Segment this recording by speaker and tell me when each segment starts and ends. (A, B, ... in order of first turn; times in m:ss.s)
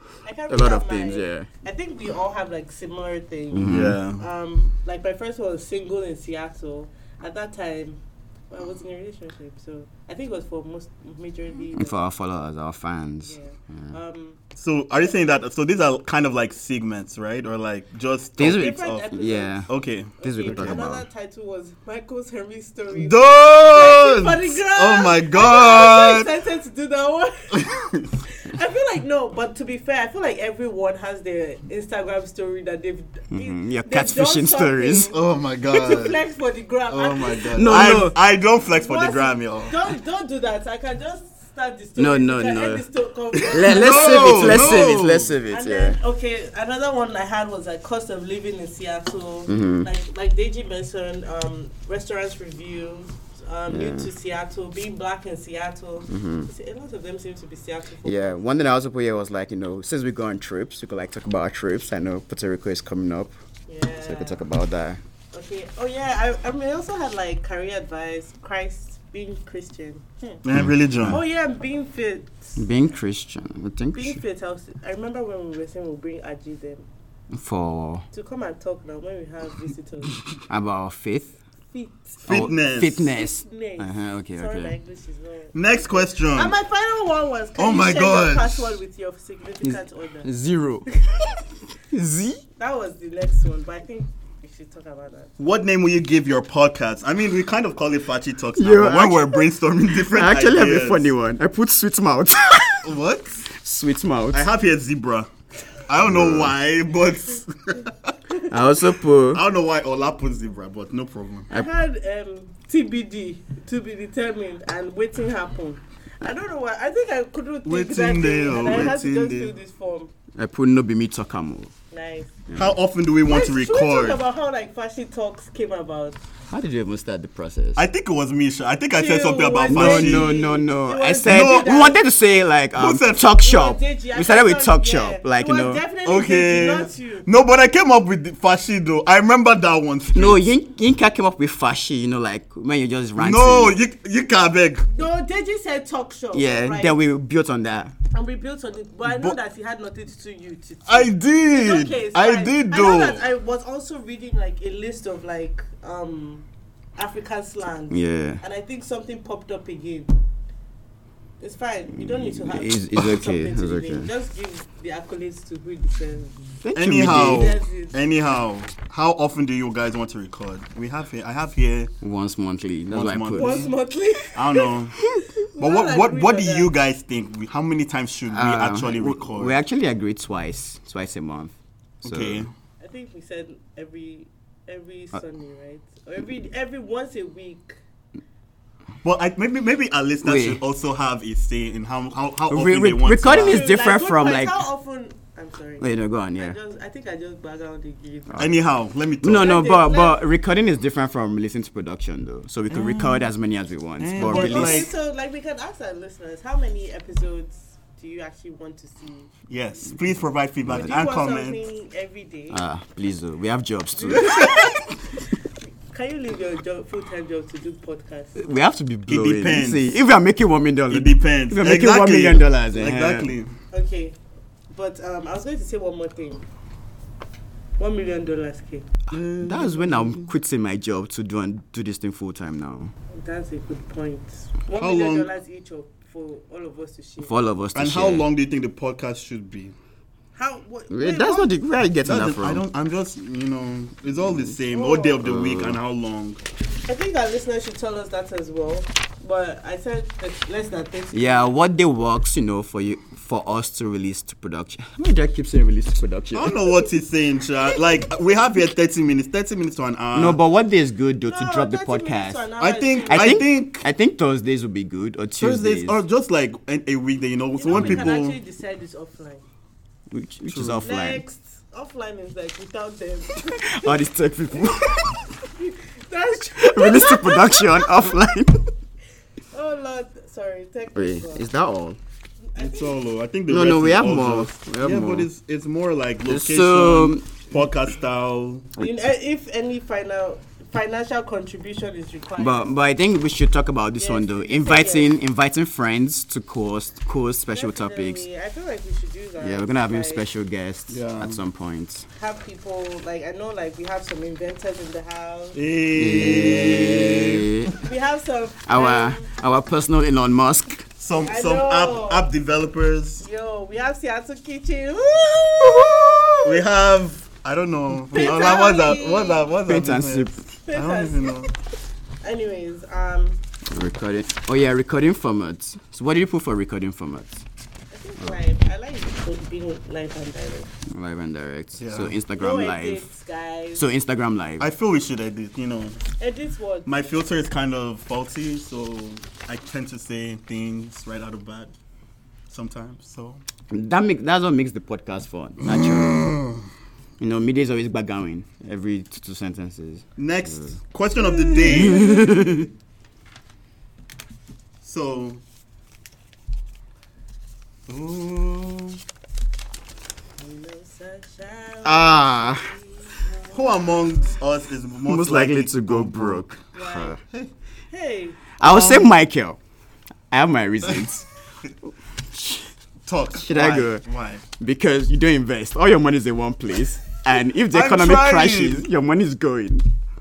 0:00.2-0:08.0 A
0:00.5-0:01.5 B
0:03.5-0:04.0 B
0:03.6-0:04.2 C
0:08.5-0:12.0 A
0:11.7-0:14.0 B
0:13.2-0:14.4 A
0:14.6-0:19.2 C
0:18.4-0:19.7 B
0:18.4-0:19.7 A
0:19.7-0:20.8 C
0:20.2-0:35.2 A
0:20.2-0:21.0 B
0:23.0-0:26.3 C
0:27.5-0:28.1 C
0:33.3-0:35.1 B
0:35.1-0:36.2 C
0:35.7-0:38.2 A
0:36.9-0:39.8 C
0:37.6-0:38.2 B
0:38.7-0:44.9 A
0:42.0-0:42.9 B
0:43.4-0:45.3 C
0:43.5-0:46.0 B
0:45.5-0:58.4 A
0:49.5-0:49.9 B
0:53.7-0:54.1 B
0:56.1-0:56.5 B
0:58.0-1:03.4 B
1:03.7-1:04.4 A
1:04.0-1:05.0 B
1:05.3-1:10.4 A
1:10.4-1:11.2 C
1:11.1-1:12.7 A
1:12.6-1:14.2 B
1:13.9-1:16.9 A
1:17.3-1:18.0 B
1:18.1-1:20.2 A
1:20.5-1:21.4 B
1:21.7-1:30.3 A
1:22.2-1:23.1 C
1:22.3-1:24.8 B
1:25.5-1:26.6 C
1:27.6-1:28.8 C
1:29.6-1:30.9 B
1:31.8-1:32.4 B
1:32.6-1:35.3 A
1:35.4-1:41.1 C
1:38.6-1:39.4 B
1:40.0-1:42.9 B
1:42.8-1:43.5 C
1:43.6-1:44.5 B
1:44.3-1:45.3 C
1:45.9-1:48.2 C
1:46.0-1:46.5 B
1:48.5-1:49.4 B
1:49.3-1:51.5 C
1:51.5-2:00.1 A
1:57.6-1:59.5 C
2:00.4-2:01.7 B
2:01.9-2:02.4 A
2:02.5-2:02.7 B
2:02.6-2:04.2 C
2:03.3-2:06.2 A
2:06.5-2:07.8 B
2:07.8-2:10.3 C
2:08.9-2:12.0 A
2:09.7-2:15.8 B
2:11.2-2:11.9 C
2:12.8-2:13.3 C
2:13.4-2:17.3 A
2:16.0-2:20.4 C
2:20.1-2:23.8 B
2:23.2-2:24.9 C
2:24.9-2:27.0 A
2:26.3-2:27.9 B
2:28.1-2:36.4 A
2:29.1-2:29.4 C
2:30.9-2:33.2 C
2:37.0-2:40.1 A
2:37.9-2:38.4 B
2:41.4-2:48.0 A
2:42.1-2:44.1 B
2:46.6-2:47.6 B
2:46.7-2:51.9 C
2:52.0-2:53.7 B
2:52.9-2:53.7 C
2:53.3-2:54.7 A
2:54.3-2:55.0 C
2:55.1-2:55.3 B
2:55.5-2:56.7 A
2:55.6-2:59.6 C
2:58.3-3:02.5 B
3:02.0-3:02.5 C
3:02.8-3:07.8 A
3:09.0-3:13.7 C
3:10.2-3:10.6 B
3:12.5-3:14.6 B
3:13.3-3:18.5 A
3:15.8-3:16.6 B
3:18.4-3:19.6 C
3:19.2-3:24.9 B
3:19.3-3:20.2 A
3:22.7-3:23.3 C
3:24.0-3:24.9 C
3:24.2-3:29.3 A
3:29.5-3:31.6 C
3:30.7-3:31.0 B
3:30.7-3:32.6 A
3:32.5-3:34.8 B
3:34.0-3:35.3 A
3:35.9-3:38.4 A
3:38.4-3:43.3 B
3:39.1-3:40.0 C
3:40.9-3:43.5 C
3:43.7-3:44.2 A
3:44.7-3:46.4 A
3:47.8-3:48.9 A
3:49.1-3:50.3 C
3:49.1-3:52.9 B
3:53.1-3:57.3 A
3:54.8-3:55.3 C
3:57.3-3:58.3 B
3:57.8-3:59.8 C
4:00.4-4:01.5 A
4:00.9-4:02.6 B
4:02.0-4:06.4 C
4:04.7-4:05.2 A
4:05.2-4:05.8 B
4:06.9-4:11.6 A
4:11.1-4:16.6 B
4:16.3-4:20.4 C
4:20.1-4:22.5 B
4:21.3-4:23.4 A
4:22.6-4:23.9 C
4:23.1-4:26.0 B
4:25.4-4:28.4 C
4:27.6-4:29.4 A
4:27.7-4:28.1 B
4:30.1-4:31.2 B
4:30.5-4:30.8 C
4:30.8-4:34.0 A
4:33.5-4:35.2 B
4:34.5-4:38.1 A
4:36.6-4:38.7 B
4:39.5-4:41.5 A
4:40.9-4:42.0 B
4:42.5-4:43.0 A
4:42.6-4:48.7 C
4:43.5-4:45.3 B
4:46.3-4:47.3 B
4:48.8-4:52.7 A
4:52.4-4:58.2 B
4:54.0-4:55.1 A
4:57.5-5:00.2 A
4:59.4-5:02.1 B
5:00.9-5:01.4 C
5:02.2-5:05.6 A
5:05.5-5:07.5 C
5:06.0-5:07.7 B
5:07.8-5:09.3 A
5:08.7-5:10.8 B
5:11.0-5:13.3 C
5:11.2-5:12.3 A
5:13.2-5:16.4 A
5:16.4-5:21.5 C
5:18.1-5:18.6 B
5:18.1-5:19.5 A
5:19.6-5:20.4 B
5:20.7-5:21.4 A
5:22.2-5:23.4 A
5:23.7-5:27.4 B
5:27.9-5:30.7 A
5:30.9-5:33.1 B
5:31.8-5:32.2 C
5:32.4-5:33.9 A
5:33.8-5:34.7 B
5:34.6-5:36.0 C
5:36.2-5:36.9 A
5:36.9-5:41.7 C
5:42.5-5:43.4 C
5:43.7-5:46.3 B
5:45.6-5:46.6 C
5:47.2-5:50.7 B
5:50.2-5:52.1 C
5:51.2-5:52.7 A
5:51.7-5:52.7 B
5:54.8-5:55.4 C
5:57.9-5:59.0 C
6:00.4-6:04.4 A
6:01.8-6:02.7 B
6:03.5-6:06.5 C
6:05.1-6:07.2 B
6:06.7-6:07.2 A
6:07.9-6:08.5 A
6:08.6-6:09.6 B
6:08.6-6:09.1 C
6:10.3-6:11.3 B
6:12.3-6:12.7 B
6:13.1-6:14.5 C
6:13.4-6:14.0 B
6:14.6-6:19.9 B
6:17.6-6:18.9 C